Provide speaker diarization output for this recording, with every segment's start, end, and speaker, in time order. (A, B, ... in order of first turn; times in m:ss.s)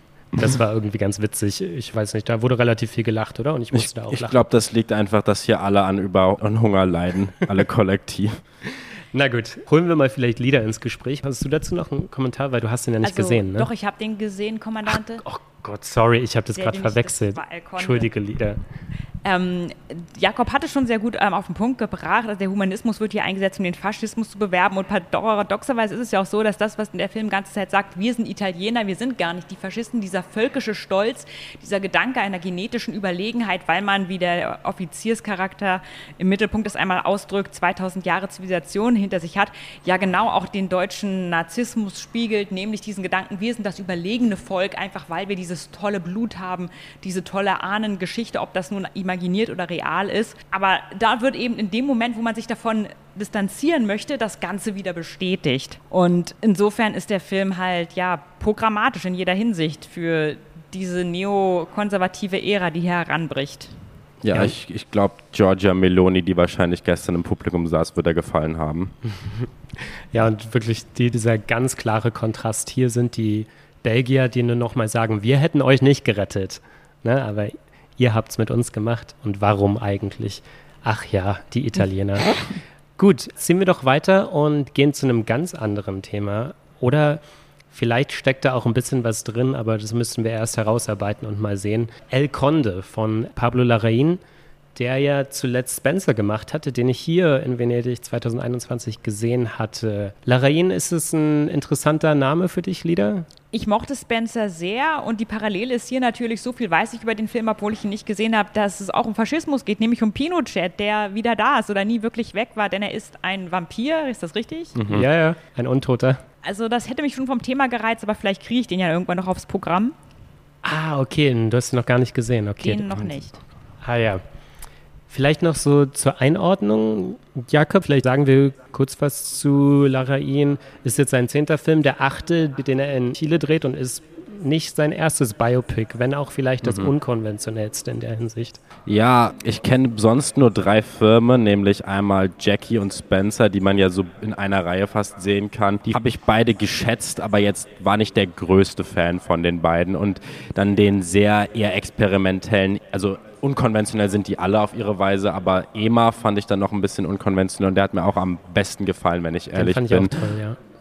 0:00.4-0:04.3 A
0:03.7-0:08.4 B
0:09.1-0:13.7 A
0:13.0-0:15.2 C
0:14.9-0:18.6 A
0:16.6-0:18.1 C
0:19.2-1:03.7 C
1:04.2-1:08.9 B
1:10.1-1:22.4 A
1:23.0-1:34.2 A
1:34.7-1:43.3 A
1:43.5-1:54.8 C
1:54.8-1:55.0 B
1:54.8-1:56.2 A
1:56.4-1:59.9 C
2:00.6-2:03.2 A
2:02.6-2:03.4 C
2:03.8-2:04.2 A
2:05.1-2:18.6 A
2:16.6-2:16.9 B
2:18.9-2:40.1 B
2:39.5-2:40.6 A